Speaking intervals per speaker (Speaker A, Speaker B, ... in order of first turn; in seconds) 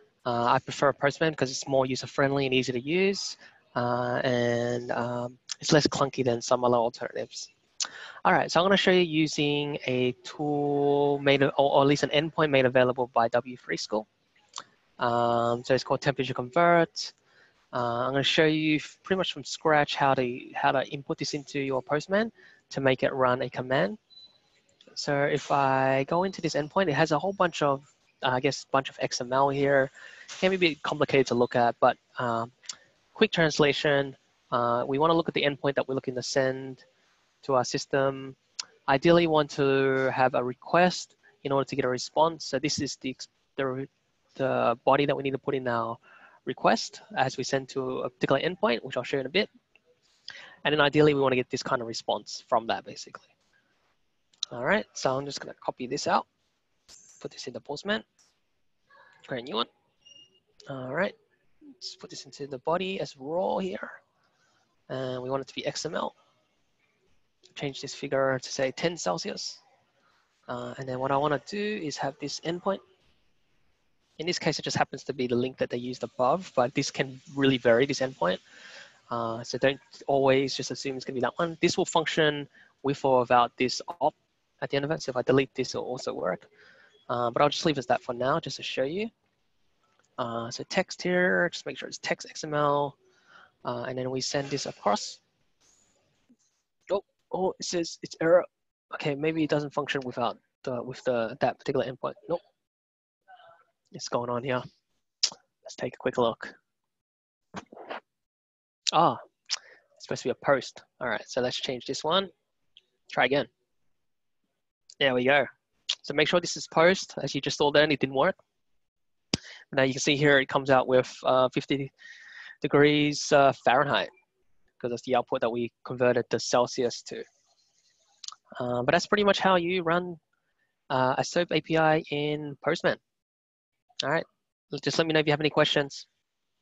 Speaker A: 0.2-7.5, 8.2-14.1, 15.0-17.1, 17.7-24.0, 24.9-32.5, 33.1-36.8, 37.4-38.4, 38.9-49.5, 50.6-53.3, 54.5-56.2, 57.2-58.0, 59.3-59.7, 60.7-61.1, 61.7-64.0, 64.9-66.1, 67.5-69.6, 70.5-72.8, 74.2-78.4, 79.1-86.5, 87.1-89.1, 90.2-93.0, 93.7-95.2, 96.9-102.4, 103.9-104.6, 105.7-106.5, 108.9-109.2, 110.0-112.3, 113.1-113.5, 115.0-115.5, 116.0-118.4, 119.7-121.9, 122.6-124.1, 124.8-127.3, 128.6-130.2, 130.9-133.0, 134.0-136.1